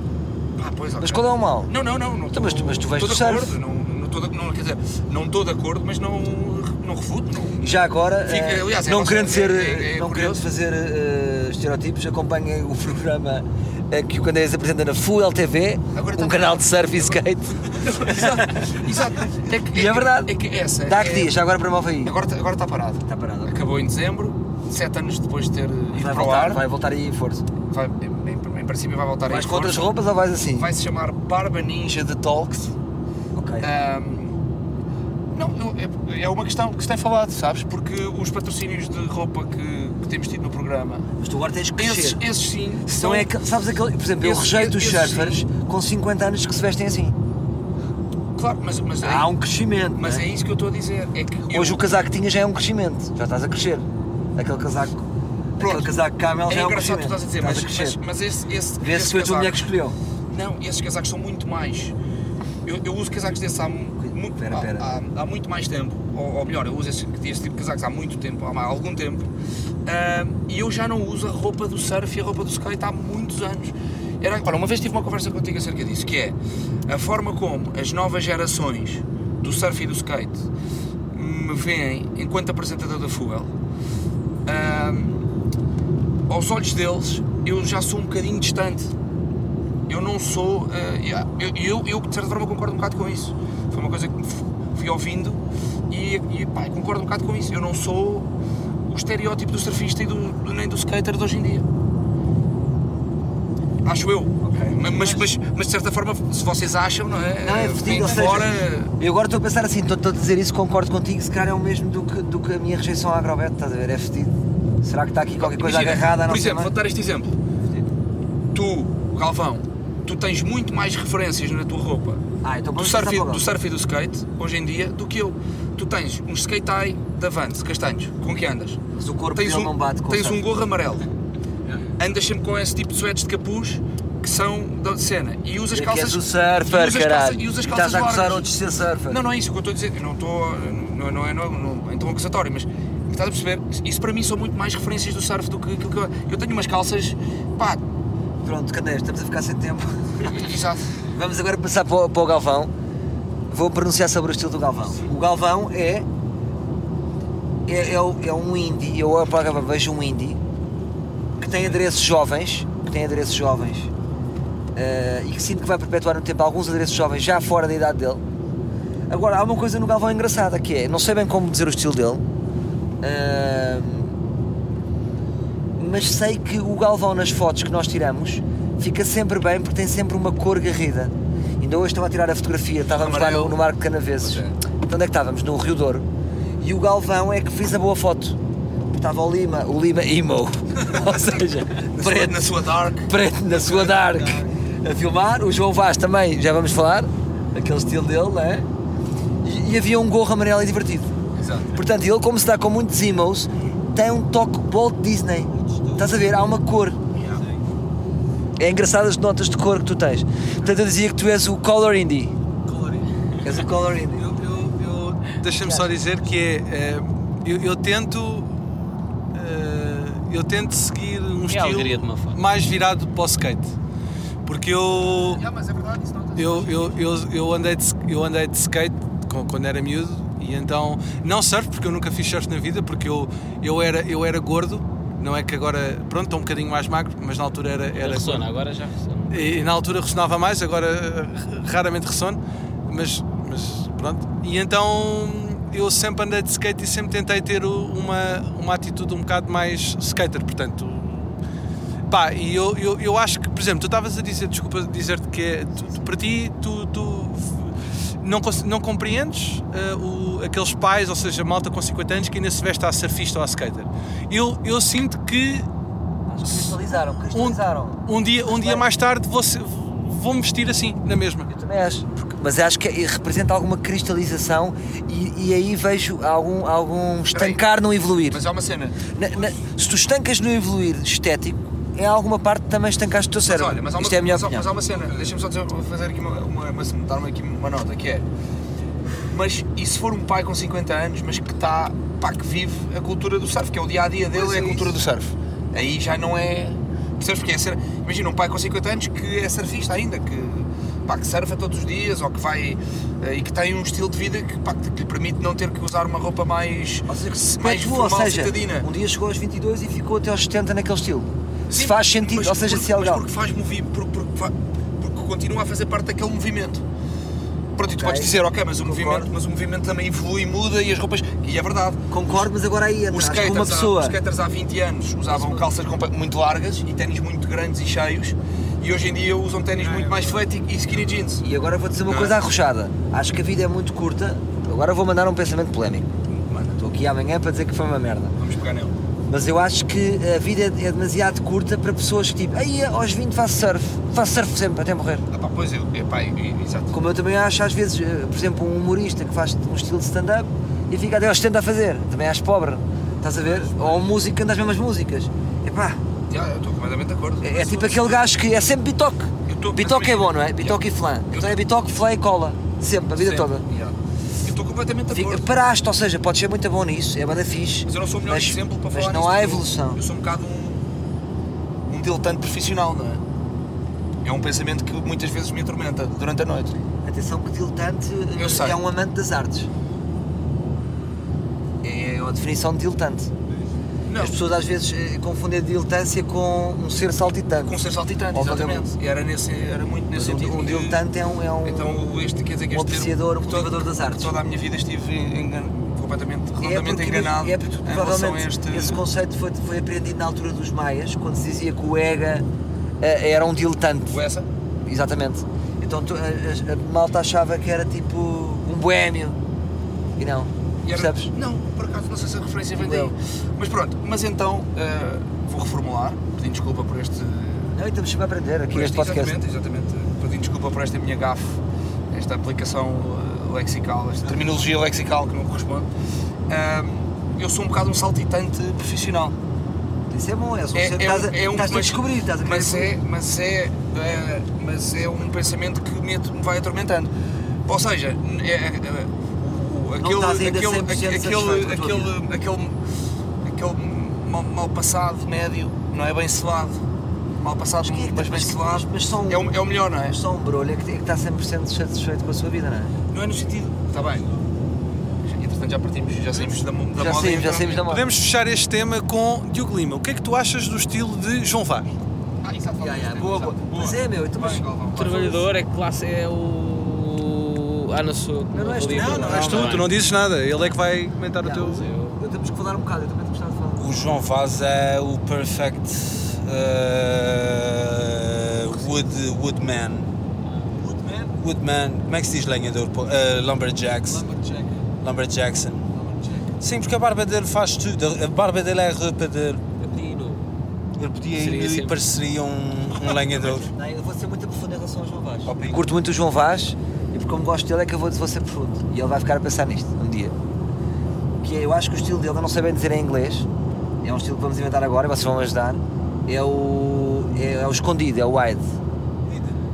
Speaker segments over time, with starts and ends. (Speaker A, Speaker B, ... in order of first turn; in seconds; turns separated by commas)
Speaker A: 0.6-10.4, Speaker B: 1.0-1.7, Speaker B: 2.3-3.5, Speaker B: 7.6-18.7, Speaker A: 15.9-21.3, Speaker B: 19.5-20.3, Speaker B: 20.8-22.1, Speaker A: 22.0-26.6, Speaker B: 23.1-23.7, Speaker B: 25.9-27.4, Speaker A: 27.7-29.9, Speaker B: 29.3-30.7, Speaker A: 30.6-32.7, Speaker B: 33.3-33.7, Speaker A: 33.6-34.3, Speaker A: 35.3-41.0, Speaker B: 41.2-42.2, Speaker A: 41.8-43.3, Speaker B: 42.9-47.1, Speaker A: 44.2-45.4, Speaker A: 48.3-49.3, Speaker B: 49.0-50.2, Speaker A: 50.0-51.9, Speaker B: 51.5-55.0, Speaker B: 55.6-58.0, Speaker A: 55.6-55.9, Speaker A: 56.5-59.6, Speaker B: 58.8-60.0, Speaker A: 60.3-61.9, Speaker A: 62.6-69.3, Speaker B: 64.0-65.0, Speaker A: 69.8-76.3, Speaker A: 76.9-80.5, Speaker A: 81.1-83.5, Speaker A: 84.5-85.2, Speaker A: 86.3-88.9, Speaker A: 89.9-98.3, Speaker A: 98.9-101.6, Speaker A: 103.8-108.9, Speaker B: 104.4-104.8, Speaker C: 104.8-105.3, Speaker B: 107.4-116.7, Speaker A: 115.4-117.3, Speaker A: 118.5-122.2, Speaker B: 122.4-123.4, Speaker A: 122.8-128.8, Speaker B: 128.9-130.4, Speaker A: 129.3-131.1, Speaker A: 132.0-138.5, Speaker B: 135.7-139.2, Speaker A: 139.1-147.8, Speaker B: 148.4-150.5, Speaker A: 150.2-150.8, Speaker B: 151.1-152.7, Speaker B: 153.5-156.1, Speaker B: 157.7-160.4, Speaker B: 161.4-163.9, Speaker B: 164.7-168.2, Speaker B: 169.1-172.2, Speaker B: 173.0-174.1, Speaker B: 175.8-186.0, Speaker A: 182.9-183.6, Speaker A: 184.2-184.6, Speaker B: 186.6-188.4, Speaker B: 188.9-192.5, Speaker A: 191.9-194.4, Speaker B: 193.0-198.7, Speaker B: 199.4-201.1, Speaker A: 201.3-201.8, Speaker B: 201.7-207.0, Speaker C: 205.5-206.3, Speaker A: 207.1-207.4, Speaker C: 207.3-207.6, Speaker B: 208.6-212.3, Speaker D: 212.7-213.5, Speaker B: 213.4-214.4, Speaker D: 214.2-218.6, Speaker B: 215.6-216.0, Speaker D: 219.3-223.7, Speaker E: 221.5-222.4, Speaker D: 224.4-225.4, Speaker A: 225.1-227.0, Speaker D: 226.3-238.5, Speaker E: 237.9-239.5, Speaker D: 239.3-251.4, Speaker D: 252.1-265.7, Speaker B: 266.3-268.9, Speaker D: 266.4-266.7, Speaker D: 267.3-271.5, Speaker B: 271.5-278.4, Speaker A: 277.3-277.6, Speaker A: 278.3-279.1, Speaker B: 279.1-284.7, Speaker A: 283.5-288.2, Speaker A: 289.3-308.9, Speaker B: 294.3-294.9, Speaker B: 307.1-313.2, Speaker A: 311.7-316.8, Speaker A: 317.8-322.5, Speaker B: 317.9-319.3, Speaker B: 322.1-324.2, Speaker A: 323.1-331.4, Speaker B: 325.3-325.7, Speaker B: 331.4-336.1, Speaker A: 332.1-332.4, Speaker A: 336.3-336.8, Speaker B: 336.7-338.4, Speaker A: 338.4-338.9, Speaker B: 339.3-345.2, Speaker A: 345.3-346.9, Speaker B: 346.9-356.0, Speaker A: 353.4-354.0, Speaker A: 356.3-358.2, Speaker B: 357.4-363.6, Speaker A: 359.4-360.8, Speaker A: 363.1-365.4, Speaker B: 365.1-370.0, Speaker A: 367.9-370.9, Speaker A: 371.9-373.2, Speaker A: 374.2-376.8, Speaker B: 377.0-379.7, Speaker A: 378.4-378.8, Speaker B: 381.8-383.3, Speaker A: 384.1-384.4, Speaker B: 384.2-388.9, Speaker A: 387.6-391.0, Speaker B: 390.1-392.1, Speaker A: 391.6-399.0, Speaker B: 392.7-394.4, Speaker B: 396.6-402.4, Speaker B: 403.0-404.2, Speaker A: 404.1-404.5, Speaker B: 404.8-409.4, Speaker B: 410.2-411.3, Speaker A: 410.8-417.7, Speaker B: 412.7-413.1, Speaker B: 417.7-419.4, Speaker A: 418.7-421.6, Speaker A: 422.1-425.9, Speaker A: 426.5-429.3, Speaker B: 430.1-432.9, Speaker A: 430.7-437.1, Speaker A: 437.6-442.8, Speaker B: 440.0-442.1, Speaker A: 443.4-446.8, Speaker A: 447.4-450.2, Speaker B: 447.8-452.9, Speaker A: 453.1-454.4, Speaker A: 455.2-457.8, Speaker B: 456.9-458.0, Speaker D: 457.9-461.9, Speaker A: 462.4-465.4, Speaker B: 462.8-464.6, Speaker E: 464.9-469.9, Speaker B: 468.5-469.8, Speaker D: 468.9-471.9, Speaker B: 471.4-473.9, Speaker E: 471.6-472.2, Speaker C: 473.8-480.1, Speaker E: 480.4-480.7, Speaker C: 481.3-484.2, Speaker D: 484.1-484.7, Speaker C: 485.0-485.9, Speaker B: 486.0-486.4, Speaker C: 486.6-489.6, Speaker E: 489.8-490.4, Speaker C: 490.9-493.7, Speaker E: 491.4-491.9, Speaker B: 493.4-500.3, Speaker C: 495.4-495.8, Speaker B: 501.4-503.5, Speaker B: 504.0-508.7, Speaker C: 509.3-509.6